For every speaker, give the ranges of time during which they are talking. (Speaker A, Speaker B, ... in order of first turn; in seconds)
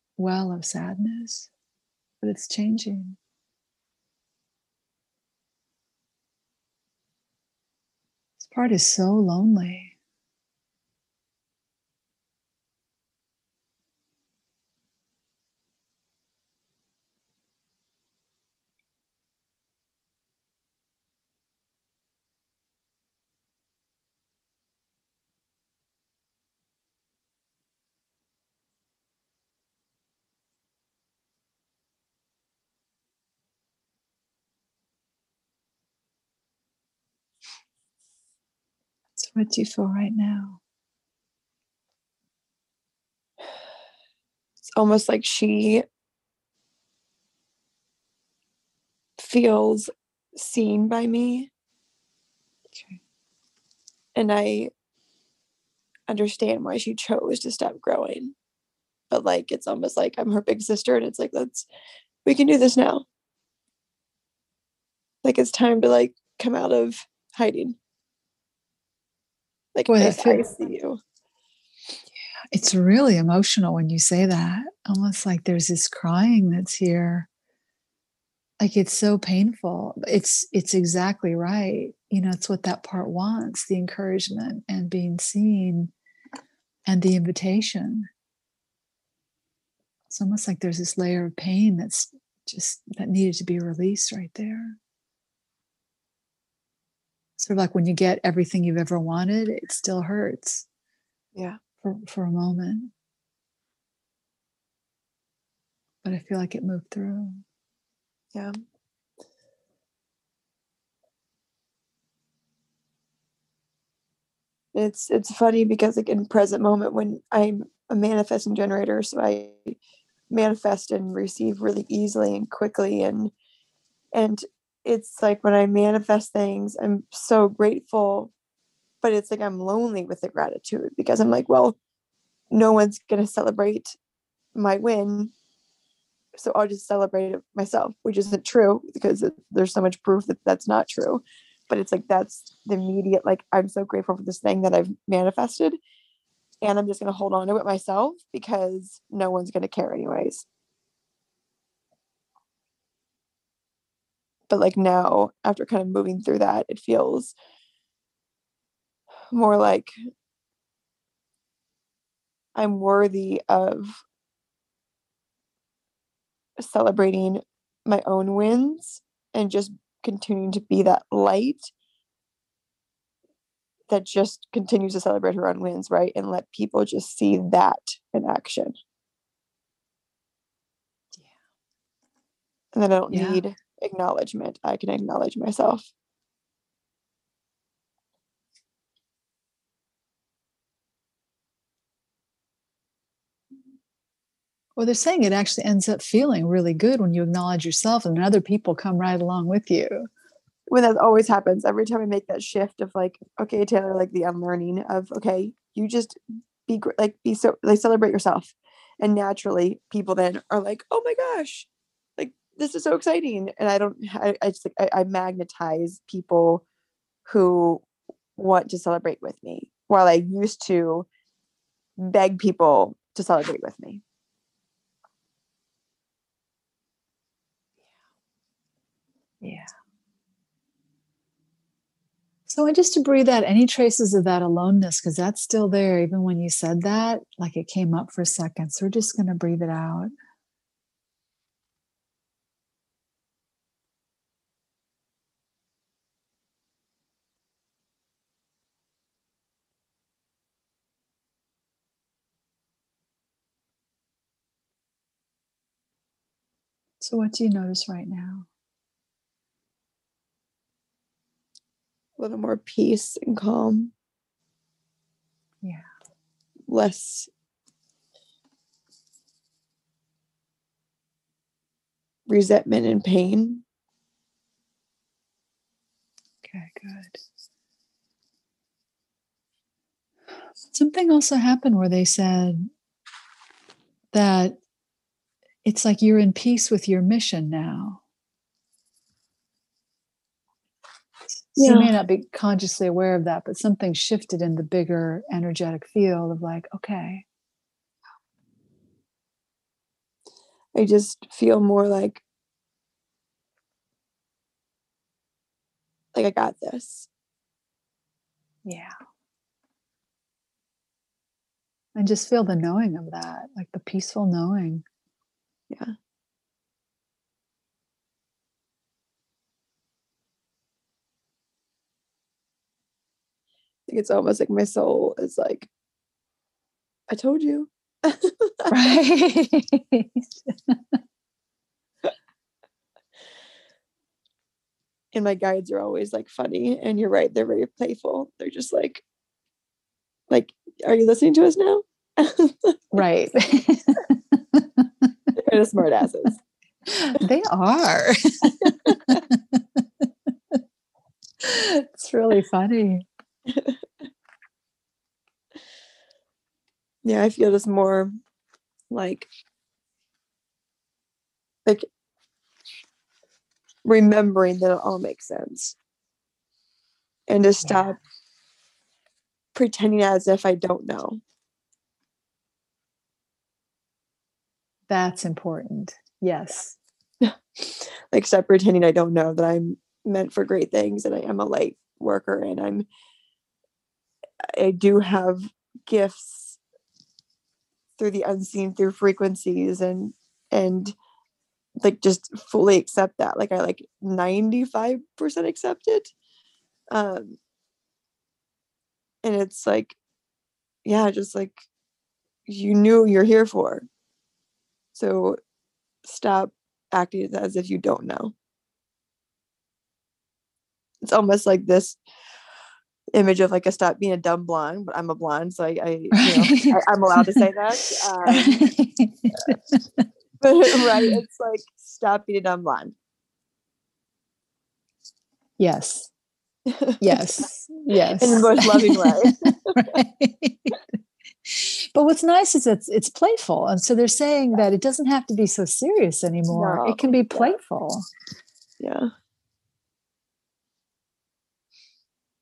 Speaker A: 0.2-1.5, 2.2-3.2, 8.4-9.9, 39.2-40.6, 52.7-53.0, 69.9-70.5, 72.5-77.3, 78.6-85.9, 86.8-88.1, 90.1-94.8, 97.4-100.7, 101.8-102.9, 106.0-107.4, 183.1-183.4, 194.8-200.1, 229.4-229.7, 232.5-240.1, 257.0-258.5, 276.4-277.2, 280.7-282.7, 284.1-284.6, 285.6-288.0, 291.5-297.2, 308.6-308.9, 311.9-314.8, 328.7-330.9, 342.9-345.1, 346.9-350.6, 351.4-353.0, 367.6-367.9, 374.9-376.8, 416.1-417.5, 418.2-420.0, 425.6-426.1, 427.0-430.9, 431.4-438.1
Speaker B: 44.7-45.8, 49.2-51.5, 54.1-54.7, 56.1-58.3, 59.1-61.7, 62.2-63.0, 65.2-67.8, 69.7-71.0, 114.7-119.8, 120.3-123.3, 124.1-128.3, 129.0-131.8, 132.5-133.9, 134.6-135.3, 136.3-145.8, 146.6-150.4, 154.5-157.3, 159.3-159.9, 162.6-164.0, 166.6-171.7, 173.9-178.7, 182.7-185.9, 200.7-216.6, 217.2-217.8, 218.3-221.1, 222.0-224.0, 262.2-263.9, 266.7-267.3, 272.3-273.6, 291.6-292.0, 300.7-302.2, 306.1-307.1, 323.9-325.7, 327.1-328.7, 335.1-339.0, 340.3-342.8, 345.4-346.4, 348.8-349.2, 353.5-353.8, 357.0-358.1, 358.9-359.3, 363.8-365.8, 367.3-368.0, 369.5-371.2, 377.2-382.9, 384.6-386.6, 388.0-390.9, 391.8-396.1, 396.9-397.4, 399.2-400.0, 400.9-401.5, 402.5-403.9, 404.9-405.4, 406.0-408.3, 411.0-412.0, 413.1-418.5, 420.4-422.9, 426.7-427.2, 428.2-429.3, 436.5-437.5, 438.8-439.1